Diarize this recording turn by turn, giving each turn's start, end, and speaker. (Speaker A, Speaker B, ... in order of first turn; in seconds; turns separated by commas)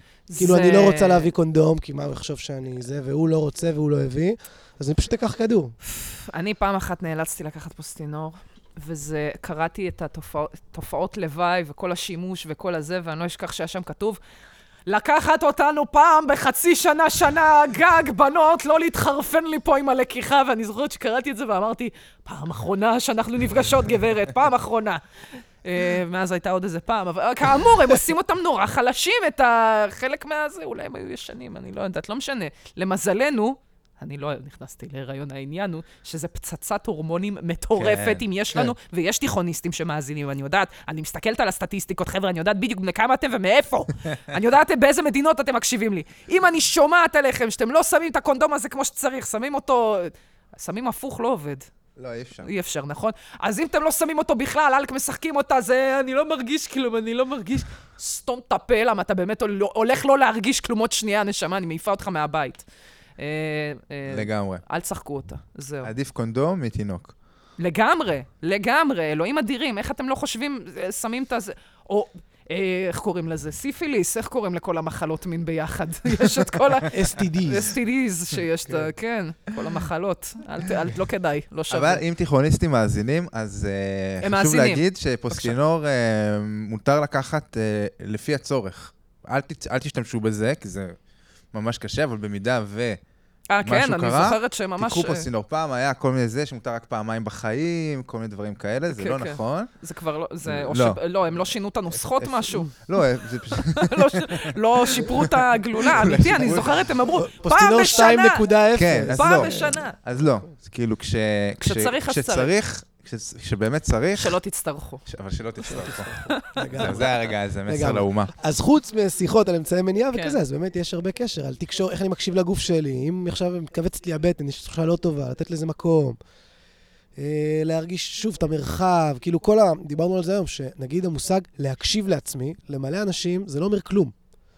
Speaker A: 0.3-1.3, Speaker B: 0.3-5.7, Speaker A: 5.9-14.2, Speaker A: 14.8-51.7, Speaker C: 37.8-38.2, Speaker C: 52.0-52.5, Speaker A: 52.4-62.6, Speaker A: 63.2-65.9, Speaker C: 64.1-64.6, Speaker C: 65.8-67.1, Speaker A: 67.6-82.0, Speaker B: 76.9-77.7, Speaker C: 81.7-91.0, Speaker A: 84.2-85.6, Speaker C: 91.5-93.0, Speaker A: 93.5-95.3, Speaker C: 93.6-99.8, Speaker A: 98.9-102.8, Speaker C: 100.4-101.4, Speaker C: 101.9-105.3, Speaker A: 103.5-108.5, Speaker C: 105.8-107.0, Speaker B: 106.1-109.8, Speaker C: 108.7-114.4, Speaker A: 109.1-110.0, Speaker A: 111.6-112.5, Speaker A: 114.2-115.0, Speaker C: 115.0-118.3, Speaker B: 115.7-126.2, Speaker A: 116.3-117.0, Speaker B: 127.2-134.1